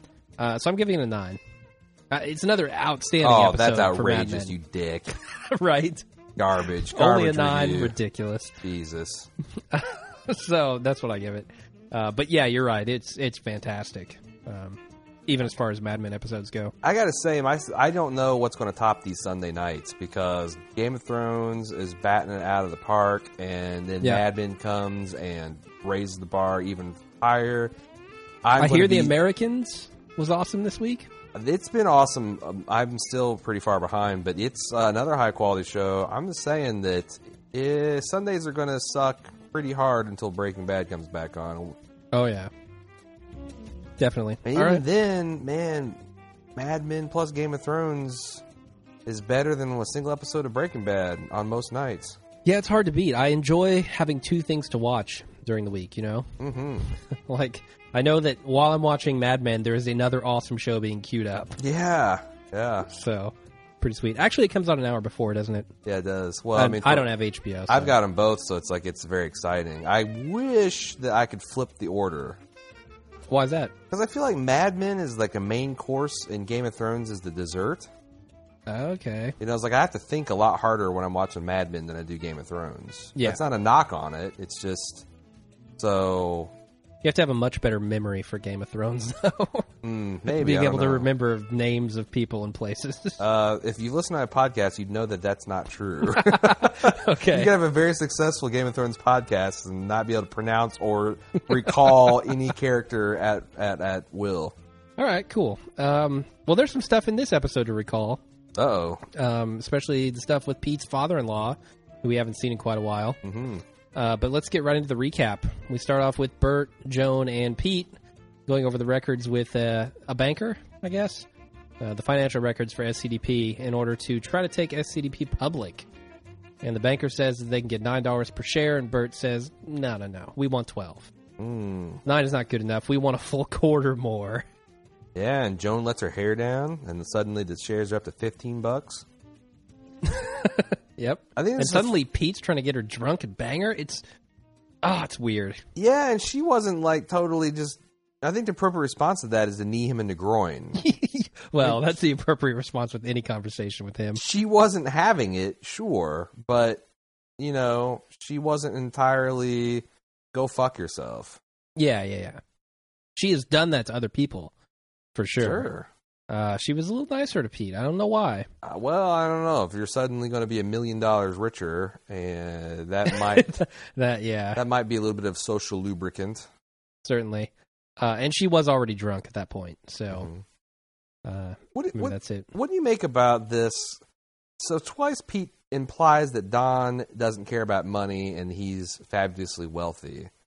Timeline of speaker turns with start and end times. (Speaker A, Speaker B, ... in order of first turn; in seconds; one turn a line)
Speaker A: 0.4-1.4
Speaker A: 2.1-4.5
Speaker B: 3.2-5.1
Speaker A: 5.4-6.0
Speaker B: 6.3-8.0
Speaker A: 6.9-8.5
Speaker B: 8.6-9.3
Speaker A: 9.7-16.7
Speaker B: 16.8-27.7
Speaker B: 28.4-29.1
Speaker A: 28.6-31.1
Speaker B: 31.3-41.8
Speaker A: 42.1-42.5
Speaker A: 44.0-44.8
Speaker B: 44.4-46.0
Speaker B: 46.5-48.4
Speaker B: 49.0-52.2
Speaker A: 52.4-56.3
Speaker B: 56.4-56.9
Speaker A: 56.9-61.6
Speaker B: 61.6-62.9
Speaker A: 62.8-65.7
Speaker B: 65.8-67.1
Speaker A: 66.5-68.0
Speaker B: 67.7-72.4
Speaker A: 73.3-73.7
Speaker B: 73.9-77.9
Speaker A: 78.7-79.3
Speaker B: 79.4-85.1
Speaker B: 85.8-86.5
Speaker A: 87.0-89.7
Speaker B: 89.8-91.1
Speaker A: 90.3-93.2
Speaker B: 93.2-104.6
Speaker A: 96.0-97.5
Speaker A: 105.0-108.2
Speaker B: 108.5-109.0
Speaker A: 109.1-113.2
Speaker B: 113.2-113.6
Speaker A: 113.9-117.9
Speaker A: 118.5-121.3
Speaker A: 121.8-125.9
Speaker A: 126.6-131.1
Speaker B: 131.4-132.0
Speaker A: 132.0-134.4
Speaker B: 135.1-139.1
Speaker A: 140.0-144.0
Speaker B: 141.3-141.9
Speaker A: 144.8-145.6
Speaker B: 145.8-150.8
Speaker A: 150.8-154.2
Speaker B: 154.1-156.8
Speaker B: 157.4-161.4
Speaker A: 161.8-162.4
Speaker A: 163.2-164.5
Speaker A: 165.2-165.7
Speaker B: 165.4-165.9
Speaker A: 166.3-168.5
Speaker B: 168.6-173.5
Speaker A: 173.1-174.6
Speaker B: 174.6-176.5
Speaker A: 177.0-180.3
Speaker B: 180.1-180.4
Speaker A: 181.2-182.5
Speaker B: 181.7-184.0
Speaker B: 184.6-190.3